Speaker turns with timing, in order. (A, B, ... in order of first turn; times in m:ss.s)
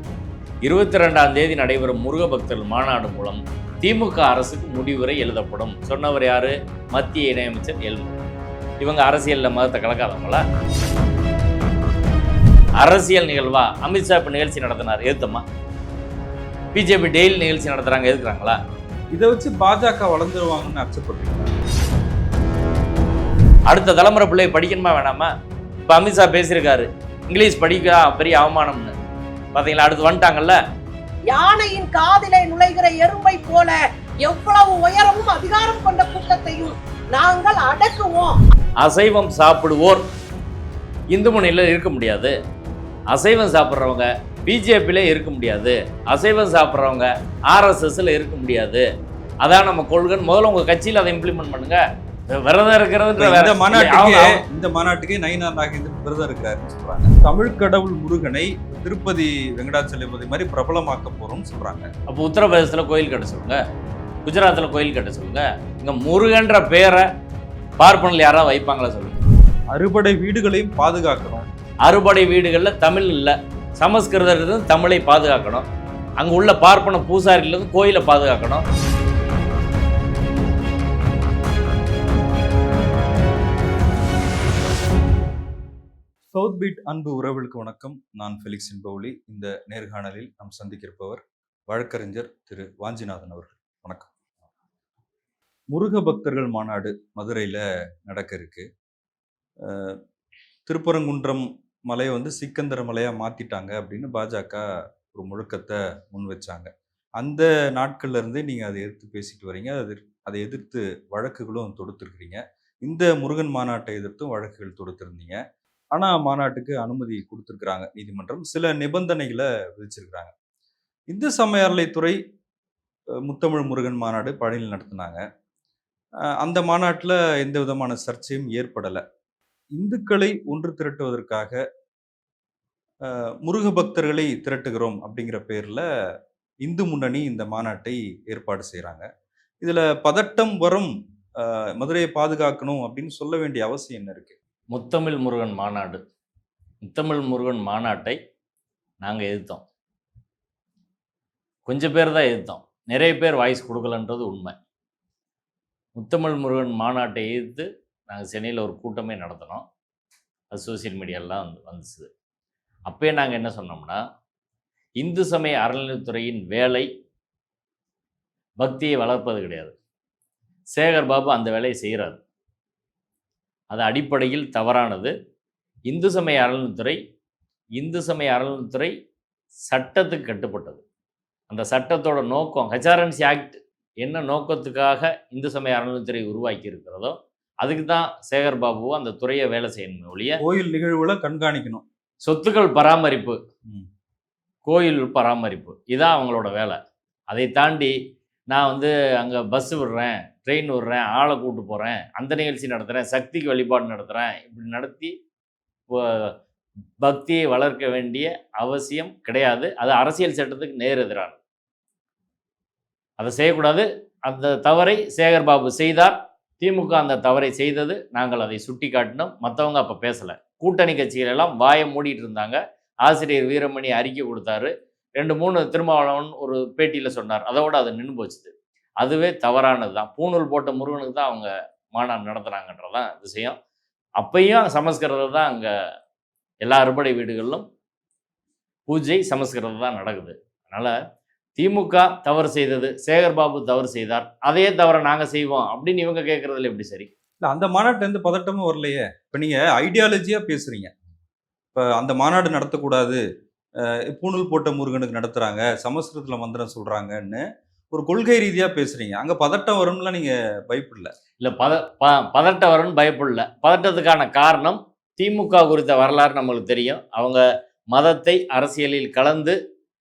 0:00.6-0:08.2 A
0:08.8-0:10.4 A
0:12.8-0:15.4 A
0:16.7-0:18.6 A
0:19.1-0:21.5 B
0:23.7-0:25.3 A
0:25.9-0:29.0 A
0:29.5-0:30.6 A
0:31.3-0:38.4 C
0:38.8-0:40.0 A
0:41.1-0:42.3 A
0:43.1-0:48.8 A
0:49.4-0:54.4 A
0:53.2-1:01.9 B
1:02.1-1:03.6 A
1:04.2-1:07.0 A
1:07.8-1:09.2 A
1:09.7-1:11.4 B
1:11.8-1:15.7 A
1:16.2-1:18.6 A
1:26.3-1:34.1 B
1:35.7-1:38.7 B
1:39.6-1:40.0 B
1:40.7-1:55.4 B
1:55.9-2:00.3 B
2:01.1-2:02.2 B
2:03.2-2:05.2 B
2:06.4-2:09.0 B
2:09.8-2:11.6 B
2:13.0-2:15.8 B
2:16.6-2:19.1 B
2:19.6-2:24.3 B
2:24.7-2:26.0 A
2:26.8-2:28.2 A
2:29.0-2:29.6 A
2:31.7-2:34.6 A
2:36.0-2:39.6 A
2:40.5-2:42.1 A
2:42.9-2:44.0 A
2:45.0-2:46.9 A
2:48.6-2:49.8 A
2:50.7-2:52.2 A
2:53.7-2:55.1 A
2:55.9-2:57.0 A
2:57.8-2:58.9 A
2:59.7-3:00.8 A
3:01.5-3:10.4 A
3:10.4-3:11.8 B
3:12.2-3:13.4 A
3:14.6-3:16.8 A
3:17.3-3:17.9 A
3:18.5-3:25.1 A
3:25.9-3:26.3 A
3:27.0-3:31.4 A
3:33.2-3:53.6 A
3:54.2-3:55.7 A
3:56.6-3:57.6 A
3:58.9-4:01.0 A
4:01.6-4:07.1 A
4:07.4-4:10.9 B
4:11.7-4:13.2 B
4:14.1-4:21.1 B
4:21.4-4:29.6 A